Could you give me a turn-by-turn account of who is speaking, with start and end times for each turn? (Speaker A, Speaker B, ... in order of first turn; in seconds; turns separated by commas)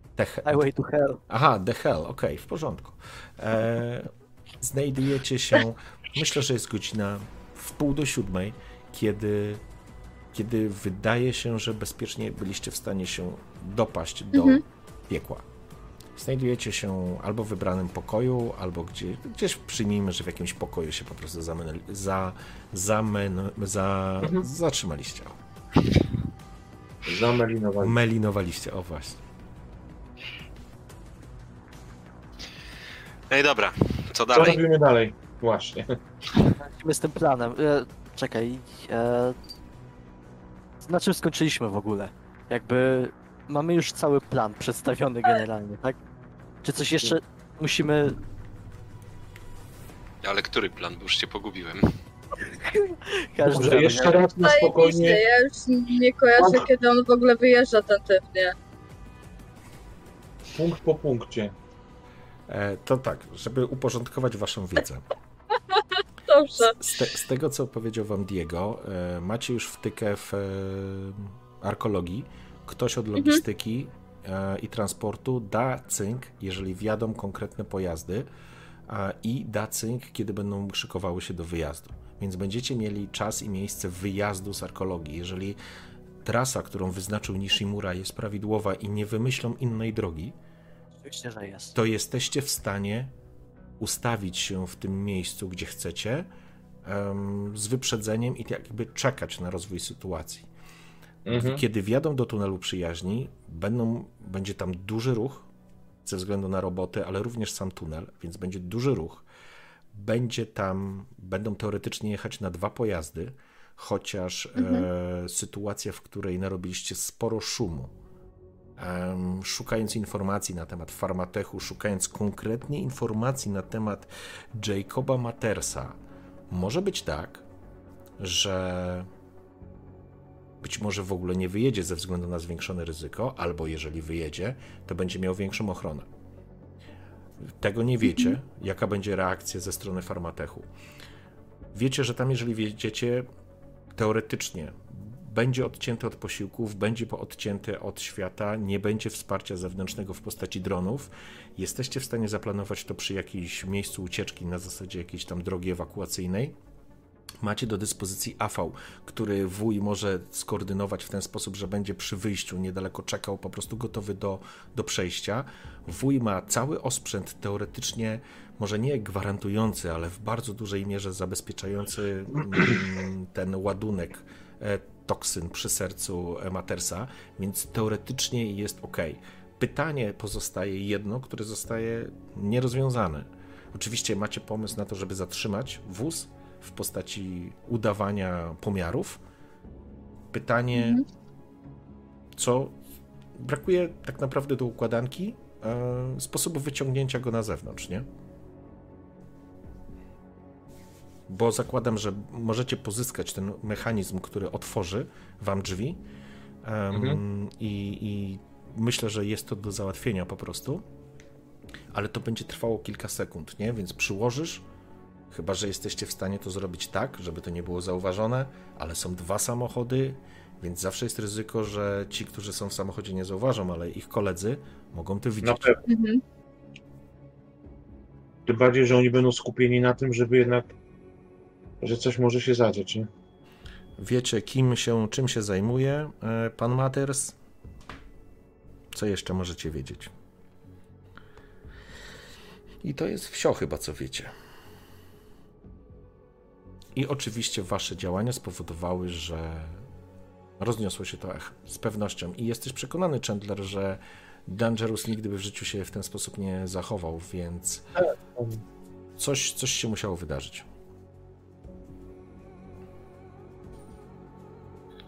Speaker A: 0.2-0.6, Speaker B: 0.5-1.2, Speaker A: 1.3-9.6, Speaker A: 10.3-15.4, Speaker C: 14.3-14.6, Speaker A: 16.1-25.4, Speaker D: 27.0-28.0, Speaker A: 27.8-29.2, Speaker E: 33.3-34.6, Speaker D: 34.3-36.0, Speaker B: 36.5-39.4, Speaker B: 40.8-46.0, Speaker B: 46.6-48.2, Speaker E: 50.2-51.9, Speaker B: 52.6-54.2, Speaker D: 53.4-55.2, Speaker C: 54.4-58.5, Speaker D: 56.4-56.7, Speaker D: 60.5-61.5, Speaker A: 62.5-65.1, Speaker C: 65.7-66.8, Speaker A: 66.6-78.3, Speaker C: 73.2-73.4, Speaker A: 78.9-85.6, Speaker A: 86.2-90.3, Speaker B: 91.0-91.8, Speaker A: 91.7-93.1, Speaker A: 93.8-96.3, Speaker A: 96.8-100.5, Speaker D: 101.2-101.6, Speaker A: 101.3-105.5, Speaker A: 106.0-109.2, Speaker A: 109.9-117.9, Speaker C: 114.6-114.9, Speaker A: 118.8-126.0, Speaker A: 126.5-127.4, Speaker A: 128.2-129.1, Speaker A: 130.6-136.1, Speaker A: 137.6-140.7, Speaker A: 141.7-143.2, Speaker A: 143.9-156.5, Speaker A: 157.4-189.2, Speaker A: 190.3-191.0, Speaker C: 190.8-191.0, Speaker A: 192.4-192.8, Speaker A: 193.4-198.1, Speaker A: 201.3-206.0, Speaker A: 206.6-210.8, Speaker D: 206.9-207.2, Speaker A: 211.9-214.6, Speaker A: 215.3-225.7, Speaker D: 225.4-225.8, Speaker C: 225.9-226.2, Speaker D: 228.5-230.7, Speaker D: 231.8-233.1, Speaker A: 234.0-237.4, Speaker A: 238.9-240.1, Speaker A: 242.8-244.3, Speaker A: 246.9-249.8, Speaker A: 250.6-257.9, Speaker D: 258.0-258.6, Speaker A: 259.2-260.7